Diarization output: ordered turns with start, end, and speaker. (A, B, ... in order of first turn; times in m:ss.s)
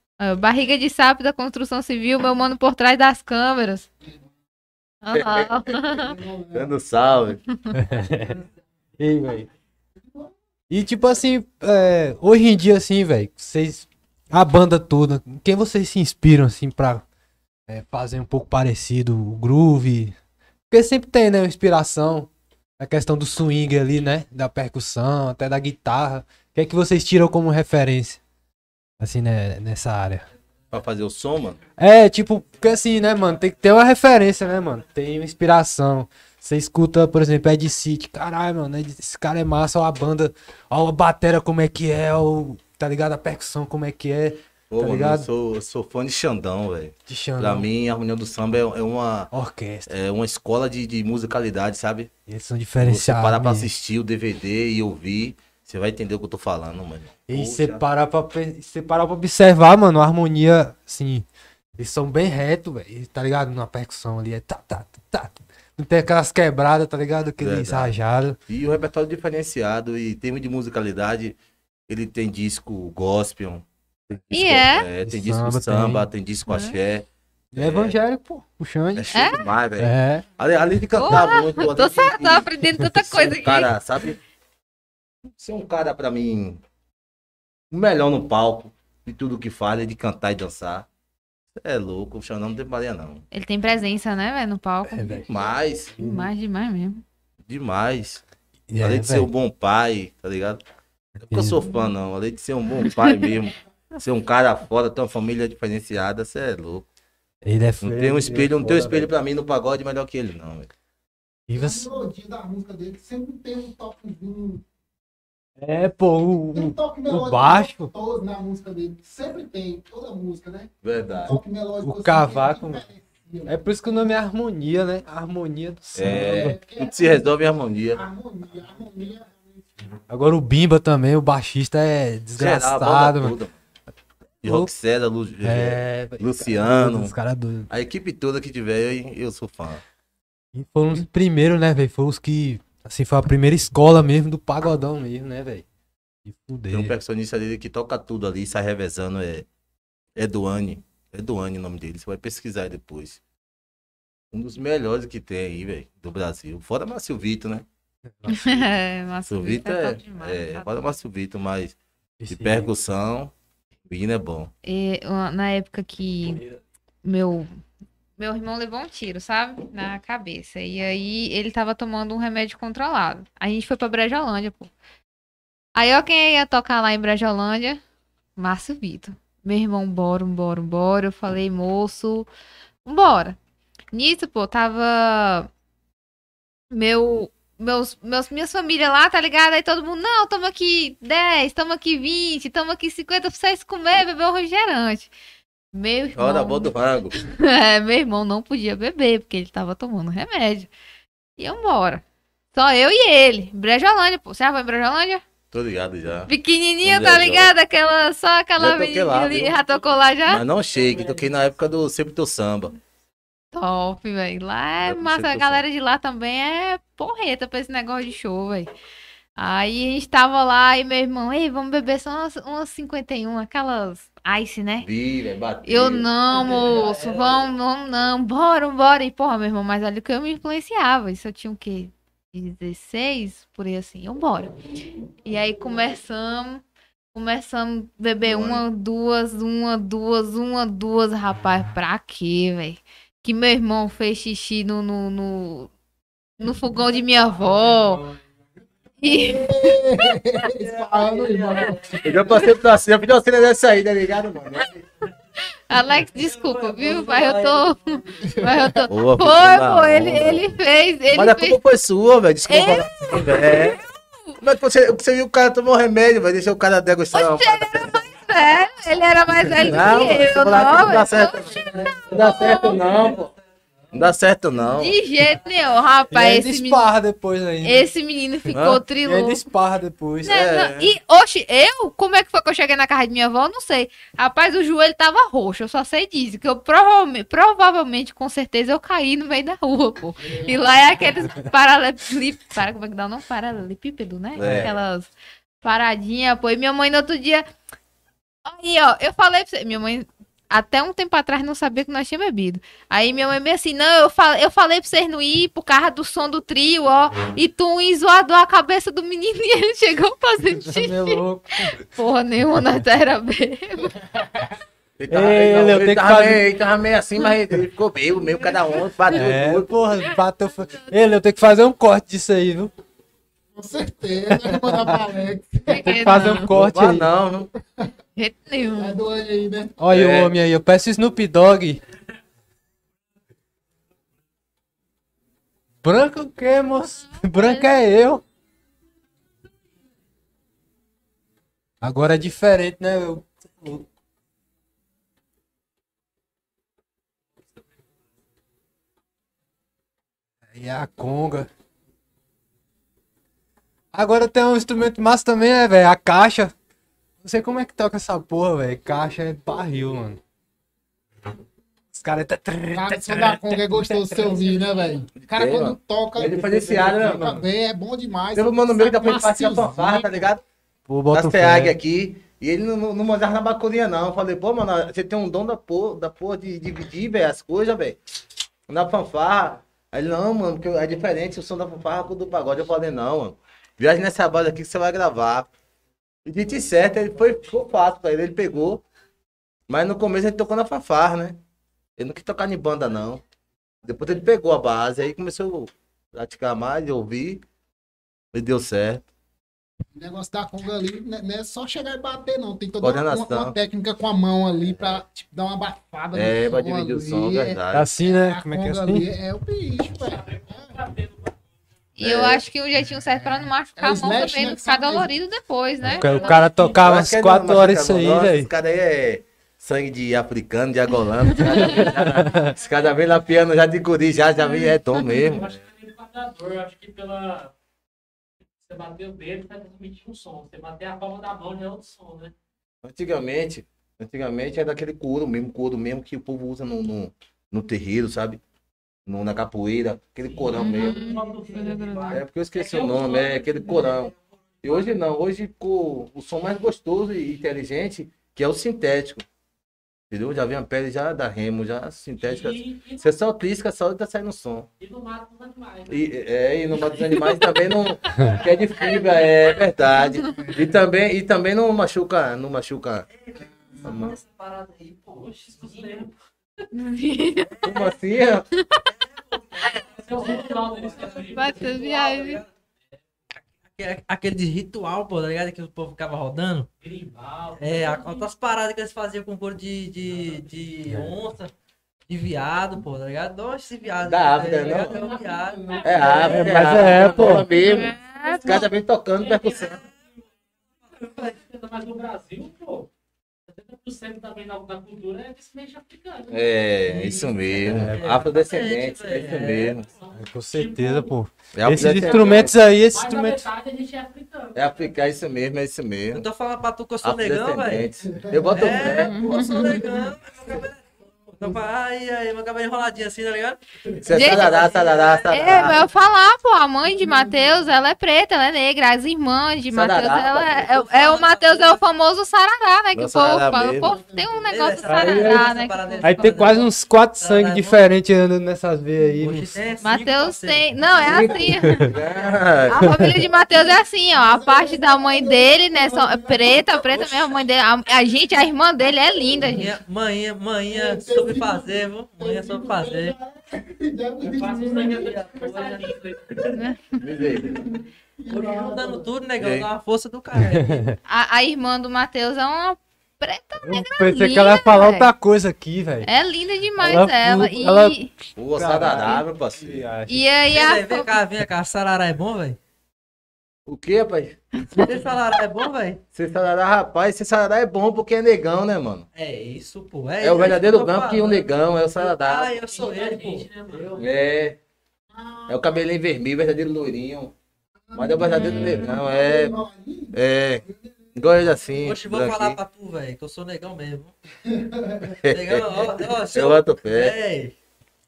0:00.2-0:03.9 A
0:05.0-0:06.1 A
0:05.1-0:05.8 B
0:05.9-0:06.7 C
0:06.5-0:07.4 B
0:07.7-0:08.4 D
0:09.0-0:09.5 D
0:10.0-0:10.3 C
0:10.7-0:17.0 D
0:17.7-0:20.2 D
0:20.7-0:28.2 D
0:29.0-0:30.3 D
0:30.7-0:31.6 B
0:31.8-0:45.3 D
0:44.7-0:49.3 B
0:47.1-0:47.7 D
0:49.3-0:49.9 D
0:49.9-0:52.1 B
0:52.3-0:53.7 D
0:52.8-0:57.8 B
0:57.3-1:01.3 D
1:01.8-1:08.4 D
1:07.4-1:08.0 B
1:08.5-1:11.4 B
1:11.9-1:18.0 B
1:14.3-1:14.9 A
1:15.0-1:16.1 D
1:16.5-1:16.8 A
1:17.5-1:20.3 D
1:19.0-1:24.2 B
1:19.1-1:19.4 A
1:21.0-1:23.7 A
1:25.4-1:26.6 B
1:27.7-1:30.9 B
1:31.6-1:33.2 B
1:33.3-1:35.2 A
1:34.9-1:35.3 D
1:35.3-1:35.9 B
1:36.0-1:36.3 D
1:36.0-1:37.0 A
1:37.5-1:38.2 B
1:38.7-1:39.3 D
1:38.8-1:40.6 B
1:41.2-1:41.6 D
1:41.2-1:46.9 B
1:47.4-1:49.1 D
1:47.8-1:50.7 B
1:51.5-1:51.9 D
1:51.5-1:54.6 C
1:55.6-1:57.9 D
1:56.5-2:03.8 C
2:00.8-2:01.4 B
2:01.3-2:02.8 D
2:03.5-2:06.6 D
2:06.0-2:08.0 B
2:06.0-2:07.4 C
2:07.9-2:09.9 C
2:10.1-2:13.4 D
2:12.4-2:13.5 B
2:14.4-2:14.7 D
2:14.4-2:17.1 B
2:15.4-2:17.7 D
2:17.7-2:19.8 B
2:20.5-2:25.6 D
2:26.2-2:26.9 D
2:26.7-2:29.5 B
2:30.2-2:33.2 B
2:34.3-2:37.7 B
2:38.2-2:38.6 D
2:38.3-2:41.0 A
2:39.3-2:41.8 B
2:42.2-2:42.7 D
2:42.3-2:43.3 B
2:43.9-2:44.5 B
2:44.6-2:46.4 A
2:47.0-2:47.6 A
2:48.2-2:54.7 A
2:55.8-2:57.8 A
2:58.4-3:02.3 A
3:02.9-3:03.4 A
3:03.9-3:05.5 A
3:06.7-3:15.1 A
3:15.7-3:20.7 A
3:16.2-3:17.2 B
3:21.4-3:22.0 A
3:22.5-3:25.2 A
3:25.5-3:26.3 B
3:26.3-3:30.4 A
3:26.8-3:27.5 B
3:28.6-3:29.6 B
3:30.3-3:32.8 B
3:33.5-3:38.7 A
3:34.8-3:35.6 B
3:39.4-3:44.9 A
3:44.8-3:46.1 B
3:45.6-3:54.5 A
3:46.3-3:47.5 E
3:55.2-3:56.6 A
3:57.1-4:05.7 A
3:58.2-3:58.6 B
4:06.4-4:08.0 A
4:09.0-4:10.1 A
4:09.1-4:12.0 C
4:10.5-4:12.5 E
4:12.0-4:14.8 B
4:15.7-4:21.6 A
4:16.0-4:18.4 E
4:18.3-4:18.9 C
4:18.9-4:20.4 B
4:21.1-4:23.8 B
4:22.5-4:24.4 A
4:24.4-4:28.0 B
4:27.1-4:32.8 A
4:29.6-4:33.3 B
4:31.5-4:33.3 E
4:31.5-4:32.0 C
4:33.9-4:35.0 B
4:34.7-4:36.9 A
4:36.1-4:37.9 D
4:37.6-4:39.4 A
4:38.5-4:38.8 B
4:39.0-4:40.4 D
4:40.2-4:40.9 B
4:40.2-4:55.1 A
4:54.4-4:54.7 B
4:54.4-4:54.7 D
4:55.6-4:57.5 A
4:58.5-5:11.2 A
5:10.5-5:11.8 D
5:11.8-5:13.9 A
5:15.0-5:19.7 B
5:15.1-5:16.4 D
5:19.1-5:22.7 D
5:23.6-5:26.2 C
5:24.3-5:25.0 D
5:25.7-5:26.5 A
5:25.7-5:27.1 D
5:26.5-5:27.5 B
5:28.2-5:29.0 A
5:28.8-5:29.8 C
5:29.8-5:31.8 D
5:29.9-5:30.3 B
5:35.8-5:38.2 D
5:37.4-5:37.7 A
5:41.8-5:43.9 D
5:50.5-5:51.5 D
5:53.9-5:56.5 D
5:57.2-6:00.2 D
6:01.9-6:04.6 D
6:02.7-6:10.2 C
6:05.2-6:07.4 B
6:08.4-6:10.4 B
6:10.9-6:11.8 D
6:11.1-6:18.0 B
6:18.7-6:25.5 B
6:26.3-6:28.8 B
6:29.7-6:31.4 B
6:32.0-6:33.2 B
6:33.8-6:37.4 B
6:38.3-6:39.0 B
6:40.0-6:50.8 C
6:42.8-6:43.6 B
6:44.7-6:45.0 B
6:46.1-6:47.9 B
6:47.7-6:49.1 D
6:50.0-6:51.3 F
6:52.0-6:56.4 A
6:52.0-6:52.4 B
6:53.2-6:55.1 C
6:55.8-6:58.5 D
6:55.9-6:56.9 F
6:56.8-7:05.6 B
7:01.5-7:02.5 D
7:04.5-7:05.1 A
7:05.1-7:07.5 F
7:08.6-7:12.3 F
7:12.8-7:18.4 B
7:19.1-7:21.0 B
7:20.3-7:23.8 F
7:20.6-7:22.2 A
7:20.9-7:21.9 E
7:22.1-7:29.2 B
7:22.6-7:24.7 E
7:30.1-7:34.7 B
7:32.2-7:33.1 F
7:34.8-7:36.1 F
7:35.9-7:43.1 B
7:36.7-7:39.3 F
7:40.2-7:40.6 C
7:43.2-7:46.1 E
7:43.8-7:44.2 B
7:45.3-7:46.1 F
7:46.7-7:47.6 A
7:47.5-7:47.9 E
7:47.6-7:48.5 B
7:48.6-7:48.8 A
7:48.9-7:52.5 E
7:49.8-7:51.9 F
7:51.3-7:52.4 A
7:53.7-7:56.7 E
7:56.8-7:58.3 F
7:57.6-8:01.5 E
8:00.1-8:00.5 F
8:00.9-8:01.1 D
8:02.1-8:06.4 E
8:04.0-8:05.0 B
8:04.6-8:09.9 F
8:05.8-8:09.8 B
8:06.3-8:07.5 D
8:07.6-8:08.7 A
8:10.9-8:12.9 F
8:11.0-8:11.4 E
8:13.5-8:17.7 F
8:16.3-8:19.9 B
8:17.6-8:18.0 D
8:17.8-8:19.8 E
8:19.8-8:21.2 F
8:20.2-8:23.5 D
8:21.5-8:22.5 B
8:21.8-8:24.9 F
8:24.6-8:26.3 B
8:26.1-8:27.9 E
8:27.0-8:29.1 B
8:28.0-8:30.1 C
8:28.5-8:35.9 E
8:28.9-8:29.8 A
8:34.0-8:35.8 B
8:34.1-8:34.6 A
8:35.3-8:46.4 A
8:37.0-8:37.3 C
8:39.7-8:40.7 B
8:40.6-8:41.8 E
8:43.0-8:43.9 B
8:43.6-8:44.5 C
8:44.5-8:47.8 E
8:44.9-8:45.4 D
8:46.0-8:49.6 D
8:49.2-8:51.4 E
8:49.8-8:51.9 A
8:51.0-8:52.9 B
8:52.7-8:59.7 A
8:52.8-8:53.2 D
8:54.1-8:57.2 C
8:59.3-8:59.6 C
8:59.5-9:03.2 E
9:00.7-9:05.7 C
9:04.2-9:06.5 F
9:04.8-9:05.9 E
9:06.5-9:06.8 A
9:07.0-9:07.6 B
9:07.2-9:09.1 C
9:08.3-9:10.9 E
9:09.4-9:09.7 B
9:10.4-9:11.0 D
9:11.1-9:15.1 A
9:13.6-9:16.1 D
9:16.0-9:18.1 A
9:16.8-9:18.0 D
9:18.4-9:19.9 B
9:18.5-9:20.3 D
9:20.1-9:21.2 A
9:20.5-9:22.6 E
9:23.7-9:24.4 B
9:24.8-9:26.0 E
9:26.1-9:29.1 B
9:29.2-9:34.0 E
9:30.2-9:32.6 B
9:32.6-9:34.0 F
9:34.0-9:34.6 B
9:35.1-9:35.6 C
9:35.5-9:37.3 B
9:37.9-9:41.2 C
9:38.0-9:39.5 B
9:38.3-9:38.9 A
9:40.1-9:40.6 B
9:41.2-9:42.6 B
9:41.8-9:44.2 E
9:44.5-9:45.1 C
9:45.2-9:47.6 E
9:45.2-9:47.2 B